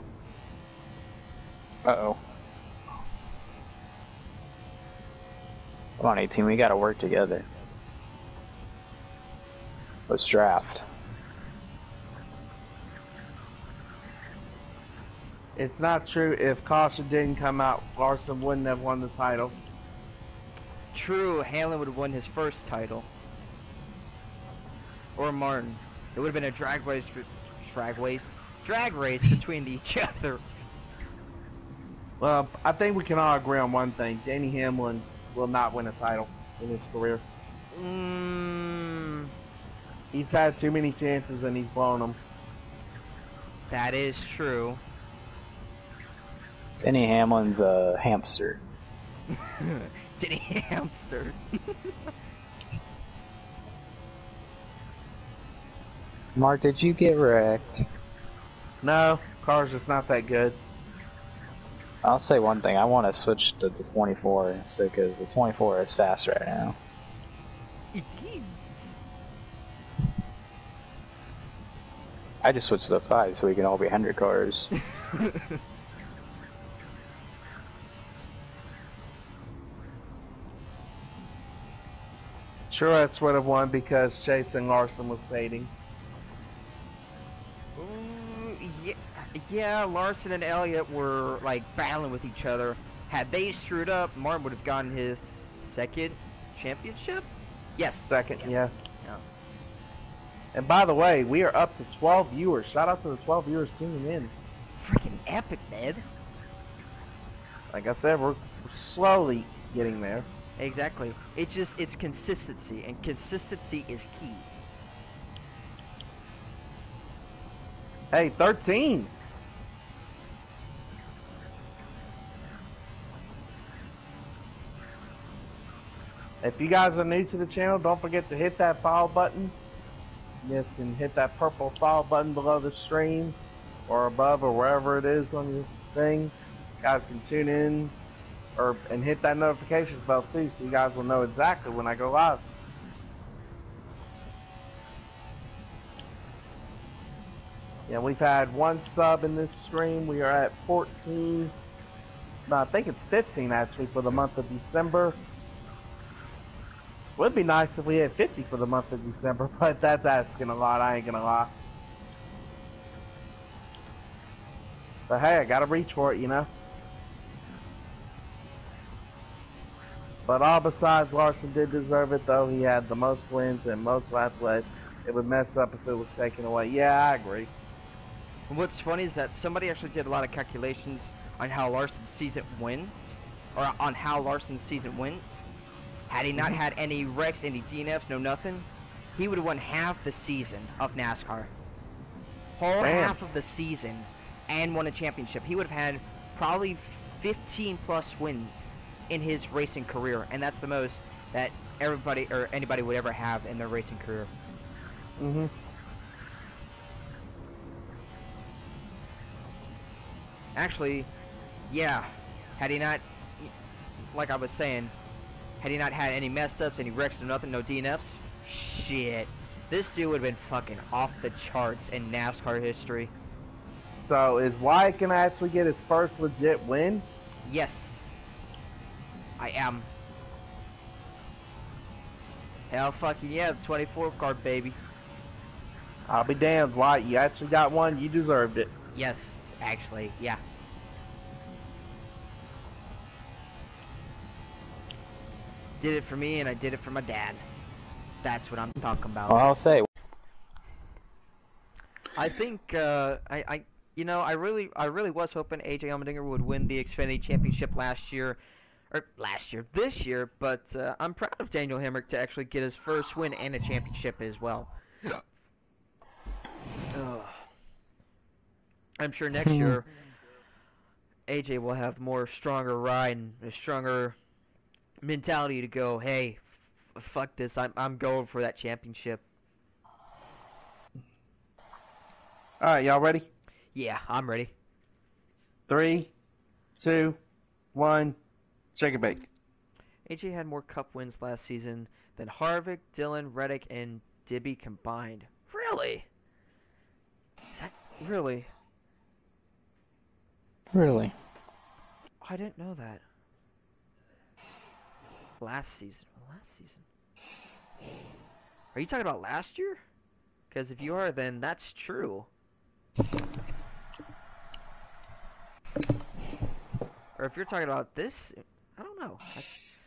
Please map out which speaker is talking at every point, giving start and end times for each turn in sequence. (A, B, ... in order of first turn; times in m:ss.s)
0:01.8-0:02.2 A
0:06.0-0:07.4 A
0:10.1-0:10.8 A
0:15.6-0:19.6 B
0:20.9-0:23.1 C
0:25.2-0:30.4 C
0:32.2-0:37.2 B
0:37.7-0:39.3 C
0:40.1-0:42.2 B
0:43.7-0:44.8 C
0:46.8-0:48.6 A
0:49.3-0:51.9 C
0:56.4-0:57.8 A
0:58.8-1:00.6 B
1:02.0-1:06.8 A
1:07.9-1:09.0 C
1:12.4-1:14.7 A
1:15.0-1:15.5 C
1:22.7-1:25.7 B
1:27.8-1:39.2 C
1:38.1-1:38.7 B
1:40.5-1:44.3 B
1:44.8-1:46.0 C
1:47.7-1:50.3 B
1:50.6-1:54.5 C
1:58.1-1:59.1 B
2:06.4-2:09.5 B
2:10.4-2:13.4 B
2:13.9-2:17.9 B
2:18.6-2:22.4 B
2:27.9-2:31.5 B
2:32.5-2:35.2 B
2:37.2-2:41.5 B
2:45.1-2:46.5 B
2:50.2-2:57.5 B
2:58.5-3:05.4 C
3:06.1-3:11.5 C
3:12.6-3:24.3 C
3:12.8-3:13.2 B
3:25.2-3:25.5 B
3:30.6-3:31.1 C
3:31.7-3:33.5 C
3:34.1-3:34.9 C
3:35.6-3:43.1 C
3:44.1-3:47.0 B
3:47.4-3:48.2 C
3:49.4-3:49.9 C
3:52.7-3:54.8 C
3:56.1-3:58.7 B
3:58.9-4:00.4 C
4:05.8-4:07.4 C
4:08.2-4:09.5 C
4:09.3-4:09.9 A
4:12.1-4:18.4 C
4:18.9-4:25.2 C
4:26.9-4:27.4 C
4:29.0-4:29.9 C
4:29.4-4:29.7 A
4:31.3-4:34.2 C
4:35.0-4:39.2 C
4:42.6-4:43.3 B
4:43.7-4:44.5 C
4:45.7-4:46.1 B
4:46.8-4:47.2 B
4:47.7-4:48.2 B
4:48.7-4:49.3 B
4:50.0-4:56.1 C
4:57.5-4:58.5 C
5:00.7-5:01.1 A
5:02.2-5:03.0 C
5:05.4-5:06.8 C
5:08.7-5:09.8 C
5:10.5-5:12.3 C
5:17.2-5:19.5 C